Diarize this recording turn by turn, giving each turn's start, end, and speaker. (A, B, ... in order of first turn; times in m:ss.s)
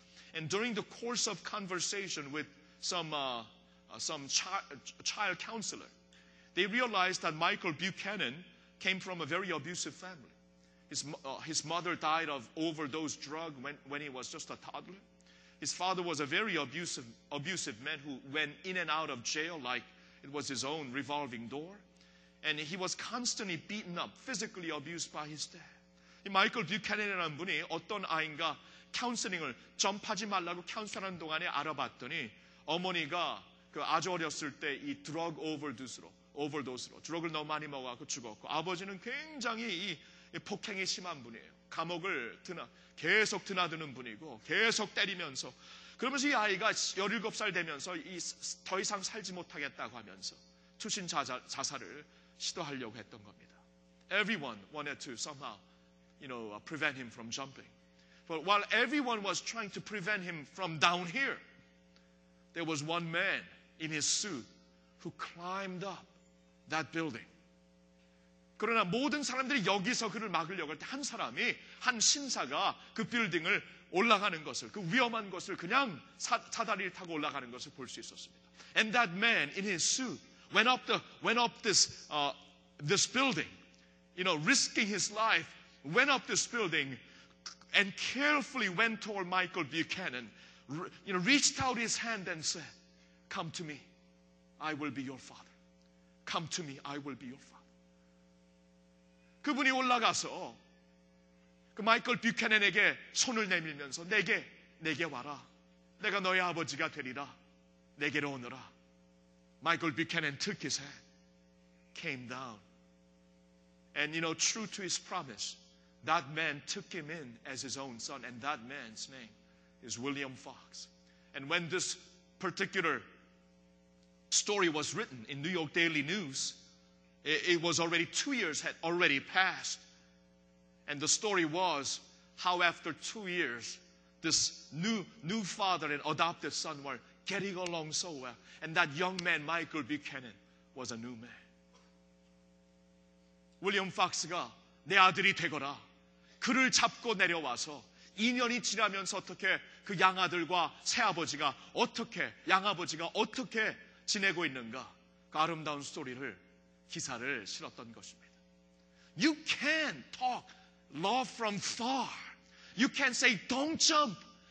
0:00.3-0:05.9 A
0:06.5-0:10.3 A
0:10.9-0:15.0 A
0:15.6-0:21.8 A
0:22.4-0:25.7 A
0:26.2-0:53.6 A
0:54.1-0:55.6 A
0:56.2-0:57.7 A
0:58.3-1:01.4 A
1:02.5-1:04.5 A
1:05.0-1:06.1 A
1:06.7-1:07.3 A
1:08.6-1:23.5 A
1:24.2-1:27.0 A
1:27.7-1:32.7 A
1:33.3-1:33.8 A
1:34.6-1:35.5 A
1:36.2-1:37.6 A
1:39.4-1:40.6 A
1:41.7-1:45.4 A
1:46.0-1:47.3 A
1:48.0-1:48.7 A
1:49.6-1:51.0 A
1:51.9-1:52.6 A
1:53.9-2:03.0 A
2:04.3-2:06.6 A
2:07.2-2:09.8 A
2:10.8-2:21.4 A
2:23.6-2:25.8 A
2:26.4-2:38.3 A
2:39.2-2:44.2 A